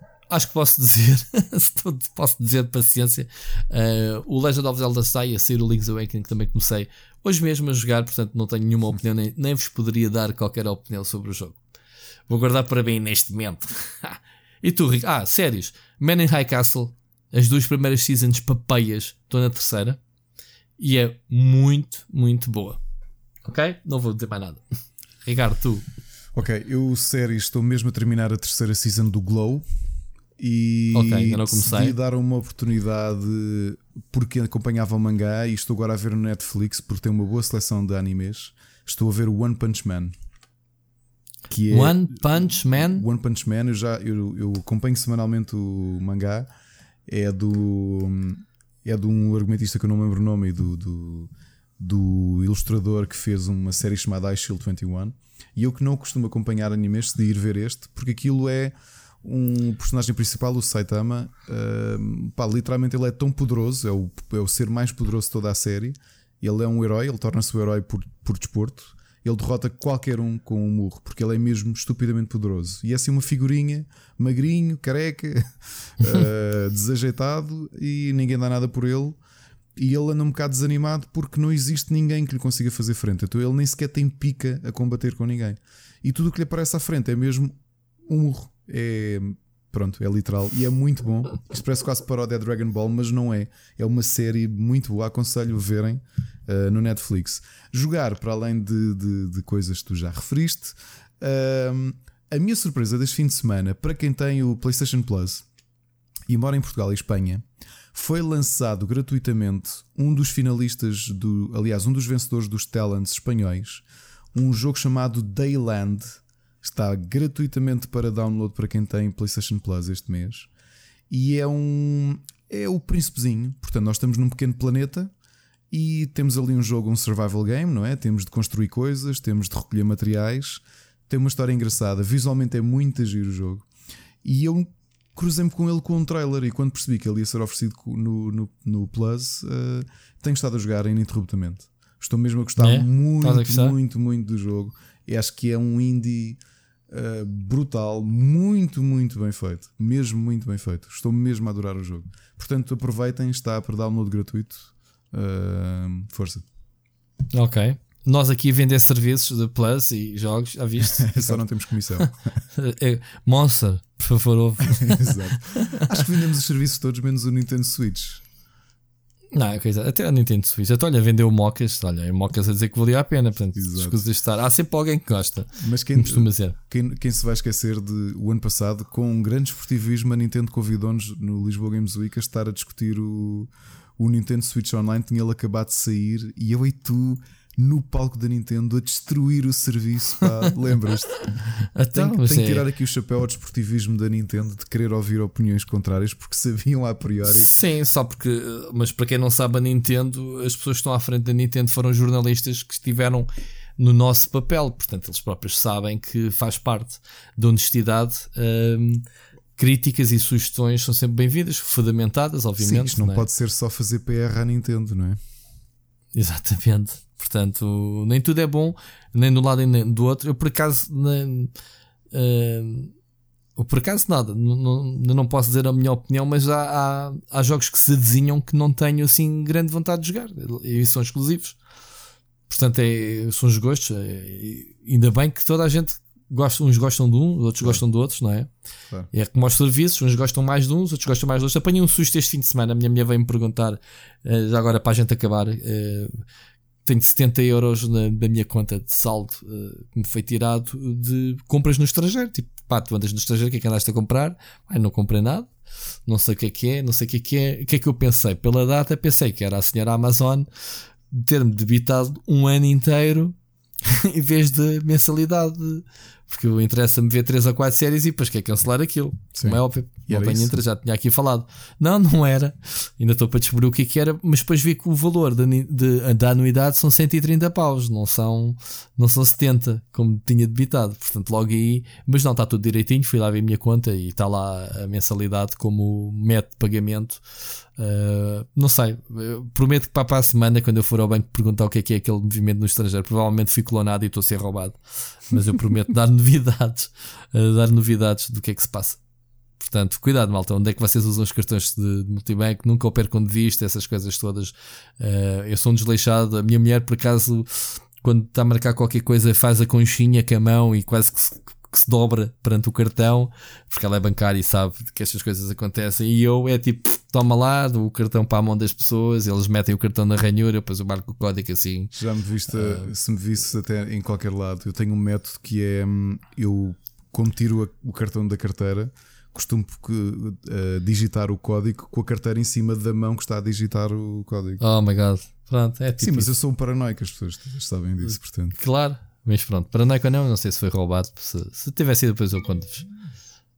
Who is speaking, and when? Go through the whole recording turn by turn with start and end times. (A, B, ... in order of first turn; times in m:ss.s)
0:00.3-0:11.6 A
0:12.3-0:20.0 A
0:20.8-0:22.8 A
0:23.4-0:24.6 A
0:25.2-0:25.8 A
0:26.3-0:29.6 B
0:30.4-0:40.1 B
0:30.9-0:31.9 A
0:41.5-0:46.5 B
0:41.7-0:43.0 A
0:47.1-1:19.2 B
1:19.8-1:45.4 B
1:46.3-2:00.5 B
2:01.1-2:05.1 B
2:05.7-2:13.6 B
2:14.2-2:36.4 B
2:22.6-2:23.7 A
2:37.3-2:41.4 A
2:40.8-2:42.2 B
2:42.0-2:46.0 A
2:44.8-2:48.2 B
2:49.3-2:56.6 A
2:53.6-2:54.0 B
2:55.6-3:11.3 B
3:11.7-3:12.6 A
3:11.9-3:17.5 B
3:17.3-3:29.0 A
3:29.6-3:33.2 A
3:32.6-3:35.2 B
3:36.1-3:41.5 A
3:42.1-3:42.9 A
3:43.6-3:51.6 A
3:52.5-3:58.5 A
3:59.1-4:06.2 A
4:06.8-4:15.5 A
4:16.1-4:20.5 A
4:21.1-4:47.2 A
4:29.4-4:30.6 B
4:47.8-4:59.0 A
4:59.6-5:21.9 A
5:21.9-5:34.6 B
5:22.5-5:22.9 A
5:34.6-5:36.3 A
5:36.0-5:38.6 B
5:38.1-5:42.8 A